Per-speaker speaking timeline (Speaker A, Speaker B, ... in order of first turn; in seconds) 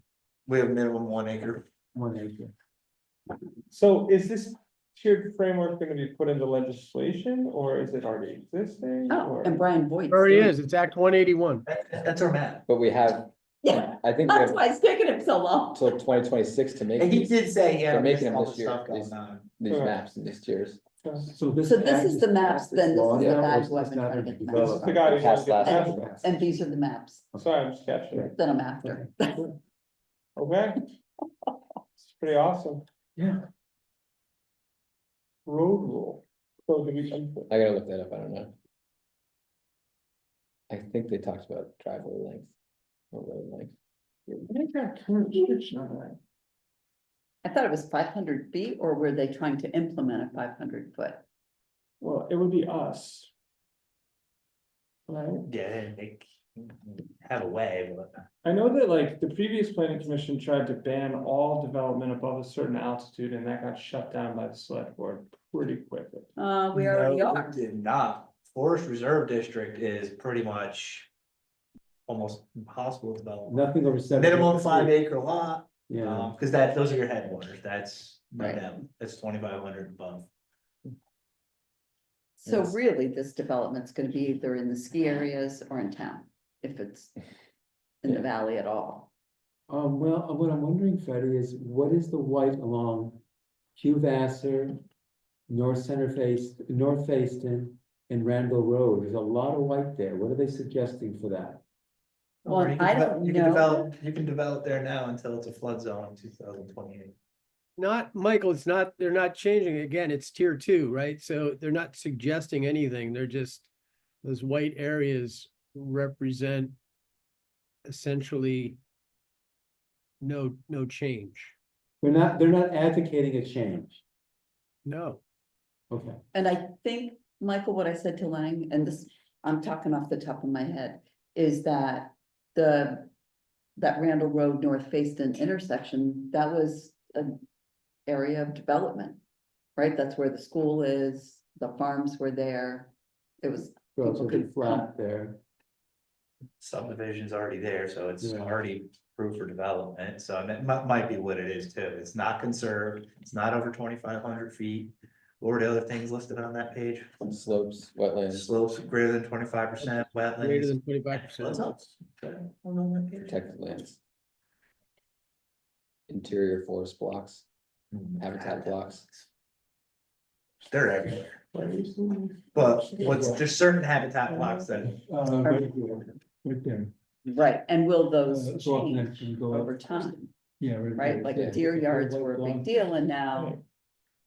Speaker A: 0.5-1.6, 11.7-12.6, 16.9-19.5, 55.5-58.2, 66.7-71.1, 72.1-80.3, 102.4-107.1, 146.6-157.1, 158.3-163.4, 167.9-168.7, 170.7-171.4, 172.5-175.0
Speaker B: 1.9-2.5, 21.2-26.5, 33.1-33.4, 73.5-75.0, 75.9-76.3, 89.7-93.2, 93.8-94.8, 95.5-101.6, 122.0-124.0, 125.9-126.2, 143.9-145.4, 148.2-148.5, 173.0-173.4, 174.8-176.9, 178.2-179.7, 180.6-182.7
Speaker C: 3.7-9.6, 19.7-20.0, 21.0-21.3, 24.5-26.0, 27.3-28.3, 30.4-30.8, 32.0-32.8, 35.5-37.5, 44.5-46.2, 52.0-53.3, 55.1-55.5, 58.4-66.3, 171.5-173.4, 174.3-174.6
Speaker D: 9.1-10.6, 13.6-16.0, 21.6-27.3, 28.3-29.5, 47.4-51.2, 66.4-67.6, 78.4-78.6, 82.4-87.1, 88.0-89.1, 102.5-103.9, 126.3-133.1, 133.8-137.4, 138.1-139.2, 139.8-144.9, 175.4-175.8, 177.3-180.3, 180.9-183.6
Speaker E: 10.1-11.6, 107.8-113.7, 114.2-116.8, 117.8-118.8, 120.2-121.5, 124.8-125.2, 159.8-161.8
Speaker F: 12.7-14.6, 15.7-20.8, 23.1-23.4, 25.1-26.1, 37.5-38.5, 40.7-42.5, 43.1-43.7, 82.5-82.7, 157.2-158.6, 163.2-164.0, 166.1-167.4, 168.2-169.2